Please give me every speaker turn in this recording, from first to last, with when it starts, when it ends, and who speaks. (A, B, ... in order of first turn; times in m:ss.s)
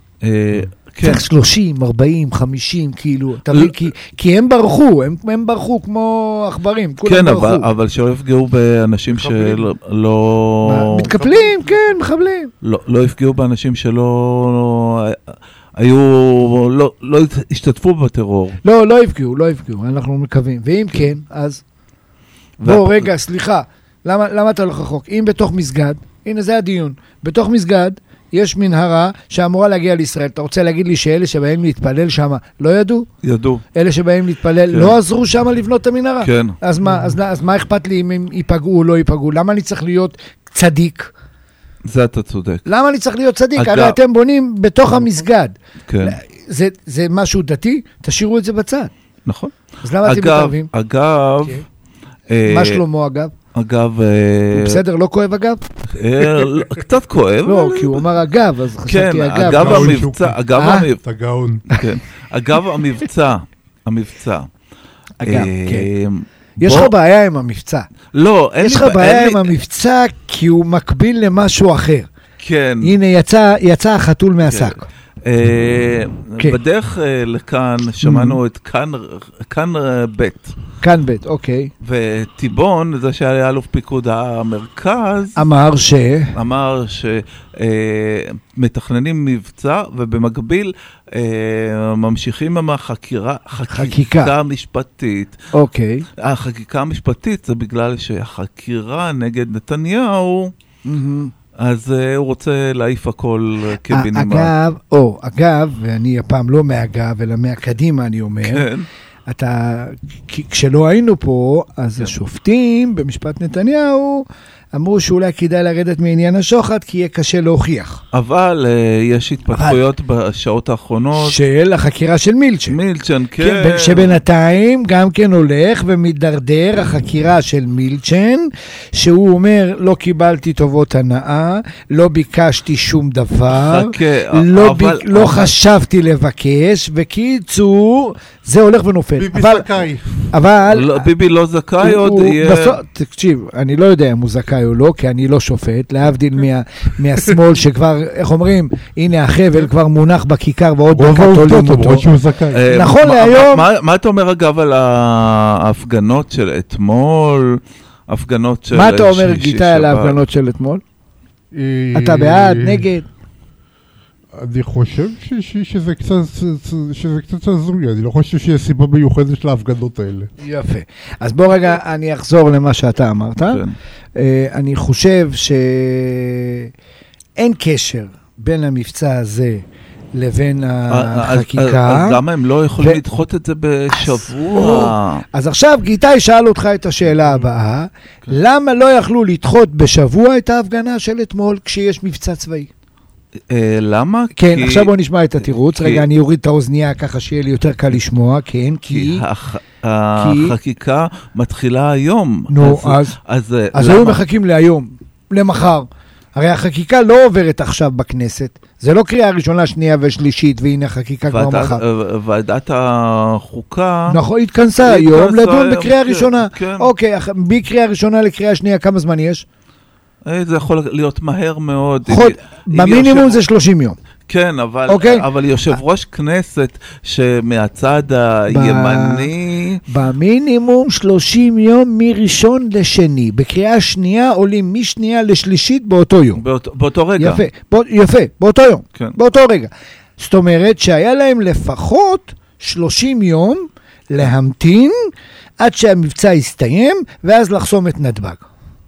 0:00.2-0:01.2 A
0:01.0-0:07.6 B
0:07.0-0:11.1 A
0:09.1-0:09.7 C
0:10.6-0:12.5 B
0:11.0-0:11.8 C
0:12.6-0:15.2 A
0:15.8-0:18.6 A
0:18.6-0:21.6 B
0:22.6-0:23.1 A
0:22.6-0:33.1 B
0:33.2-0:33.6 A
0:33.7-0:41.1 B
0:34.7-0:34.9 A
0:36.2-0:36.6 A
0:41.9-0:42.6 A
0:42.6-0:48.9 B
0:43.6-0:44.0 A
0:45.9-0:46.2 A
0:49.2-0:51.6 A
0:49.8-0:50.7 B
0:52.3-0:52.8 A
0:52.4-0:53.3 B
0:53.5-0:54.8 A
0:54.5-0:55.6 B
0:55.9-0:58.0 A
0:57.4-1:00.0 B
0:58.9-1:01.0 A
0:59.4-1:00.4 C
1:00.6-1:00.9 B
1:01.0-1:01.6 C
1:01.7-1:04.5 A
1:05.2-1:05.9 B
1:05.2-1:06.9 A
1:06.6-1:07.9 B
1:08.1-1:09.5 A
1:08.6-1:12.1 B
1:12.4-1:12.9 A
1:12.8-1:14.8 B
1:14.5-1:20.6 A
1:18.0-1:18.4 B
1:20.8-1:21.7 B
1:21.8-1:25.4 A
1:25.4-1:26.3 B
1:26.3-1:35.4 A
1:33.7-1:34.3 B
1:35.5-1:36.0 B
1:36.2-1:40.5 A
1:40.8-1:41.3 B
1:41.6-1:44.5 A
1:43.9-1:48.7 B
1:48.4-1:48.9 A
1:49.3-1:58.0 B
1:58.1-2:01.4 A
1:59.5-1:59.8 B
2:01.2-2:02.8 B
2:02.7-2:04.2 A
2:03.4-2:19.6 B
2:13.5-2:15.5 A
2:19.2-2:20.3 C
2:20.3-2:21.1 B
2:20.7-2:22.8 A
2:21.8-2:32.1 B
2:30.9-2:32.7 C
2:32.5-2:40.2 A
2:32.7-2:33.6 B
2:38.7-2:40.8 B
2:41.5-2:42.8 C
2:41.9-2:43.0 B
2:44.4-2:50.3 C
2:50.4-2:53.6 B
2:53.5-2:53.7 A
2:54.2-2:56.7 B
2:57.4-2:59.6 B
3:00.1-3:02.2 B
3:00.9-3:05.2 A
3:04.0-3:12.7 B
3:13.5-3:14.9 A
3:14.4-3:19.2 B
3:15.8-3:16.0 A
3:18.9-3:24.2 A
3:20.2-3:20.5 B
3:22.5-3:23.2 B
3:23.7-3:31.8 B
3:31.3-3:34.2 A
3:34.1-3:39.4 B
3:34.8-3:36.9 A
3:40.2-3:43.4 A
3:42.1-3:44.0 B
3:44.3-3:49.8 A
3:44.9-3:45.2 B
3:48.5-3:49.3 B
3:49.8-3:56.4 B
3:56.4-3:57.4 A
3:57.2-4:08.4 B